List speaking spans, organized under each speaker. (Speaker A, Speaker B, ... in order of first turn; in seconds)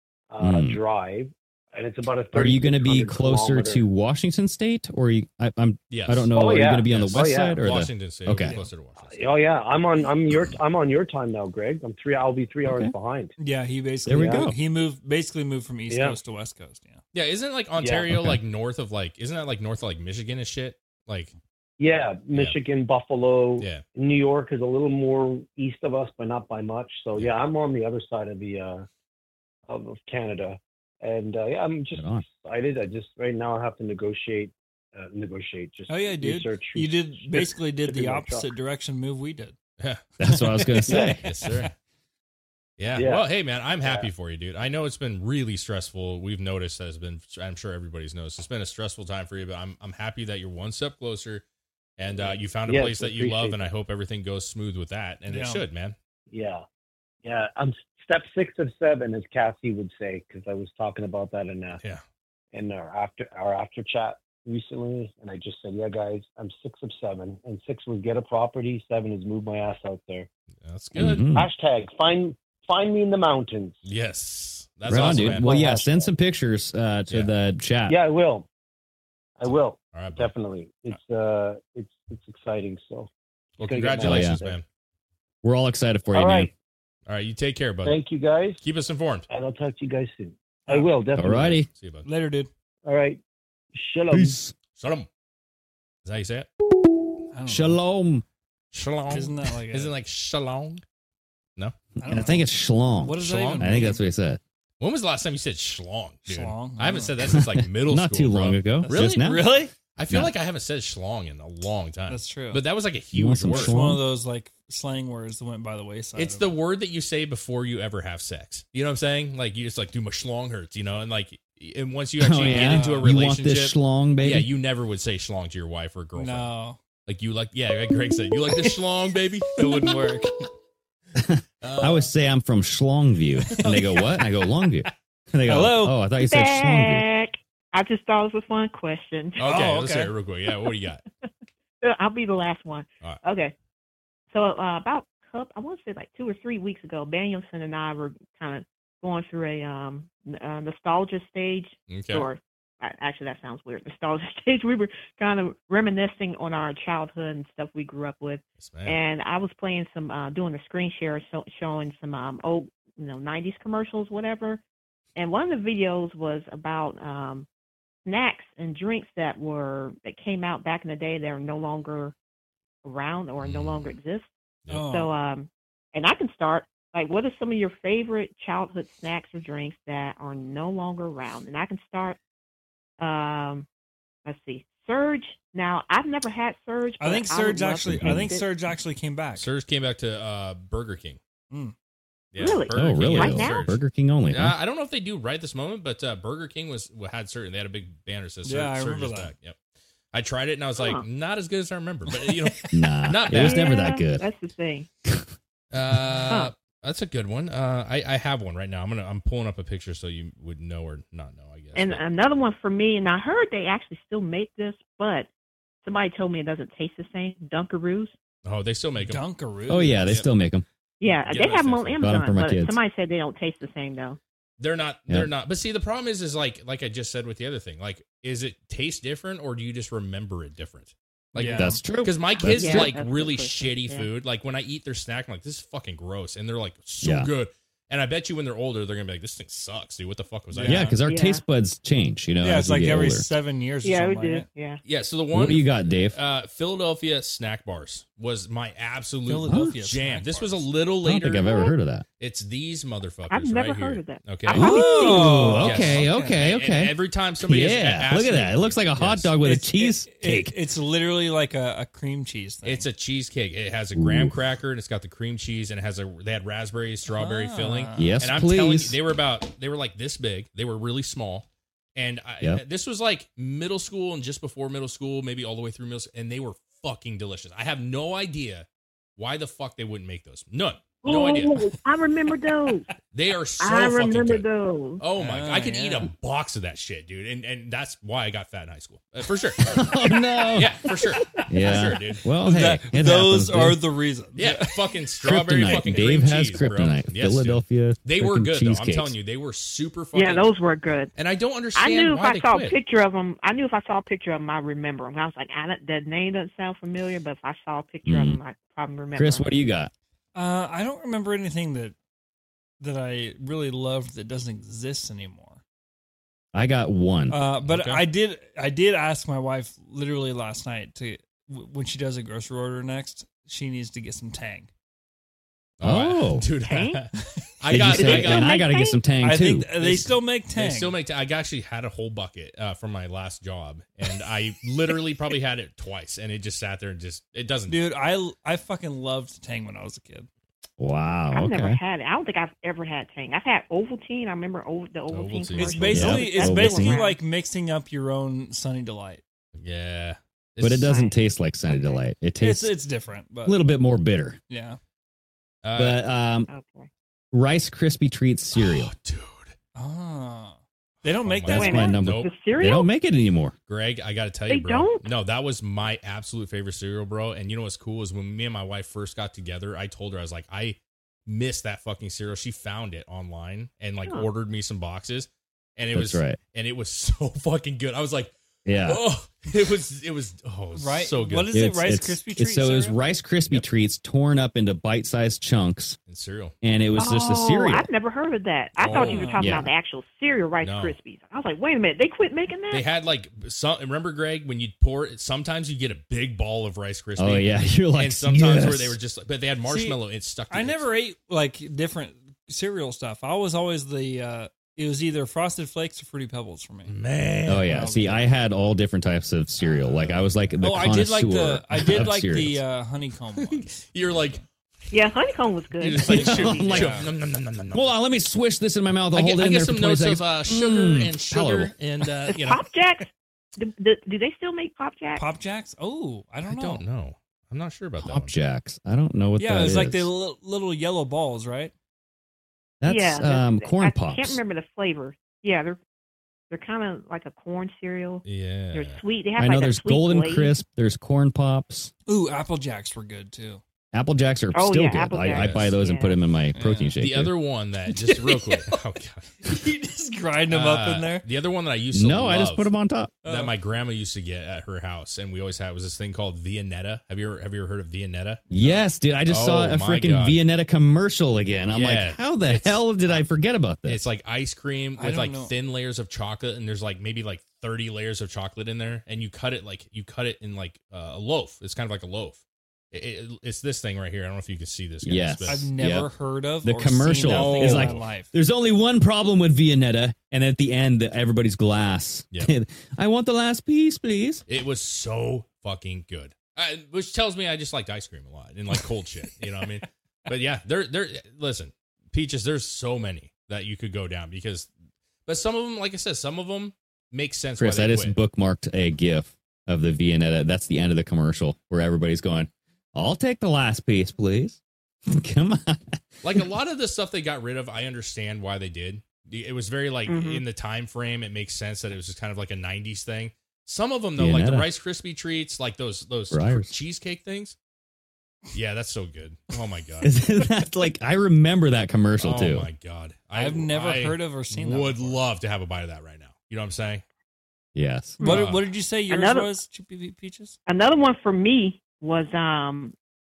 Speaker A: 0.3-3.8, 6.3-7.6, 9.0-13.3, 14.1-14.5, 15.9-16.2, 17.8-18.1, 21.8-28.9, 29.7-38.5, 40.9-41.1, 42.9-44.1, 52.2-53.6, 56.3-56.6, 57.2-61.8, 62.5-70.3, 71.3-73.8, 74.9-76.1, 77.9-78.5, 79.4-83.1, 83.6-84.6, 86.1-86.5, 87.8-88.6, 89.3-91.6, 92.8-93.2, 93.7-94.4
Speaker B: 0.4-0.8, 2.3-8.6, 12.6-12.9, 14.1-14.6, 18.1-18.4, 31.9-32.2, 40.2-41.3, 71.0-71.5, 74.9-78.0, 84.0-84.4, 85.4-86.5, 91.2-91.7, 94.1-94.5, 97.5-98.2, 102.0-104.4, 107.3-109.4, 113.1-114.0, 122.2-124.5, 131.2-137.0, 187.8-188.3, 192.7-194.6, 202.7-204.2, 219.7-220.6, 222.0-222.8, 231.6-232.9, 237.0-237.3, 240.7-243.3, 245.3-246.2, 249.5-249.7, 251.0-252.0, 254.5-260.5, 263.9-264.3, 268.0-269.0, 289.6-290.8, 291.4-293.8, 295.2-299.1, 308.1-308.4, 309.1-309.9, 316.5-317.4, 325.8-326.5, 327.7-330.1, 340.8-341.8, 345.9-347.0, 350.6-352.7, 353.4-354.4, 355.8-356.5, 357.3-358.9, 361.5-363.5, 375.9-376.4, 378.6-379.0, 381.5-386.0, 386.6-387.9, 389.4-389.7, 397.2-399.0, 407.5-412.6, 416.0-417.0, 417.7-421.7, 428.0-430.1, 432.8-434.4, 439.4-441.9, 443.9-447.3, 451.9-453.1, 458.5-464.0, 475.0-476.1, 476.6-484.4, 497.6-506.4, 514.2-514.7, 516.3-516.8, 520.0-522.7, 527.7-528.2
Speaker C: 5.9-6.3, 6.8-9.1, 17.1-21.3, 23.6-23.8, 39.8-41.7, 42.8-51.4, 52.0-56.0, 70.6-71.2, 73.8-75.5, 79.9-80.3, 83.6-84.6, 87.1-88.0, 88.6-89.3, 91.3-92.0, 94.8-95.1, 96.0-96.5, 98.7-100.8, 103.2-103.9, 104.8-109.3, 109.9-113.8, 116.2-126.5, 127.0-129.9, 131.6-132.1, 139.4-141.0, 151.9-152.3, 158.6-159.0, 173.4-173.9, 189.3-191.2, 192.3-193.8, 194.3-199.6, 200.1-203.7, 205.7-212.0, 218.4-219.2, 221.2-222.2, 224.6-240.9, 244.8-251.7, 252.2-259.3, 262.6-281.7, 283.1-284.4, 285.0-289.8, 290.5-292.2, 294.4-300.5, 301.1-302.8, 317.6-318.0, 325.8-328.6, 330.5-337.8, 345.1-346.2, 349.6-350.9, 355.6-356.0, 358.5-359.5, 361.0-362.3, 363.7-378.3, 378.8-381.5, 386.1-387.1, 388.8-389.3, 390.6-390.9, 392.7-400.8, 406.9-408.1, 409.6-410.9, 413.4-414.4, 415.8-418.0, 419.1-422.7, 426.4-428.3, 438.2-439.0, 445.3-445.8, 447.0-449.5, 450.5-452.7, 453.2-460.4, 461.7-463.2, 463.8-475.7, 477.2-478.1, 484.5-494.7, 495.2-498.2, 506.2-517.5, 518.5-520.2, 522.2-527.0, 528.2-528.6
Speaker D: 8.4-8.7, 13.4-17.0, 35.9-39.5, 40.9-41.7, 55.3-55.6, 92.0-92.5, 97.3-97.8, 99.1-99.9, 102.0-102.5, 103.0-104.0, 106.3-107.1, 108.8-109.7, 112.1-112.6, 113.5-116.5, 122.3-123.1, 126.1-126.8, 129.6-130.5, 133.5-134.2, 135.4-136.0, 139.4-140.1, 174.7-175.1, 187.0-189.5, 198.4-199.3, 219.0-220.2, 231.3-231.8, 240.5-241.0, 242.4-244.5, 249.2-250.6, 254.6-256.5, 259.4-262.9, 267.1-268.2, 285.1-286.1, 292.4-294.7, 310.3-311.9, 312.8-315.6, 317.3-324.7, 329.1-331.0, 337.7-340.3, 345.6-349.2, 352.4-353.6, 354.5-354.8, 359.8-362.0, 380.7-383.0, 388.9-389.5, 399.6-406.9, 407.6-408.2, 410.6-414.4, 416.2-417.1, 425.1-426.8, 429.4-431.7, 442.1-443.6, 446.5-446.9, 448.0-448.8, 449.4-451.2, 453.2-453.5, 465.0-465.5, 475.5-478.3, 523.3-525.2, 528.2-530.6
Speaker E: 136.2-139.6, 141.8-143.5, 144.3-164.6, 165.2-167.5, 168.1-172.1, 172.8-174.3, 174.8-182.2, 183.0-183.7, 184.2-188.5, 192.4-193.7, 200.8-201.0, 203.3-204.9, 211.7-215.3, 215.8-218.1, 221.0-224.2, 232.3-234.1, 241.0-241.4, 243.8-244.8, 253.3-255.4, 281.0-282.9, 283.6-285.0, 291.1-291.4, 300.1-301.1, 301.7-309.6, 326.5-327.0, 327.9-329.0, 341.3-347.2, 350.8-351.1, 351.7-352.0, 356.5-356.9, 361.5-362.9, 364.5-365.1, 386.9-392.8, 414.9-416.9, 422.3-425.2, 432.8-435.8, 436.5-440.5, 444.5-446.1, 510.1-510.4, 529.1-529.5, 530.6-532.9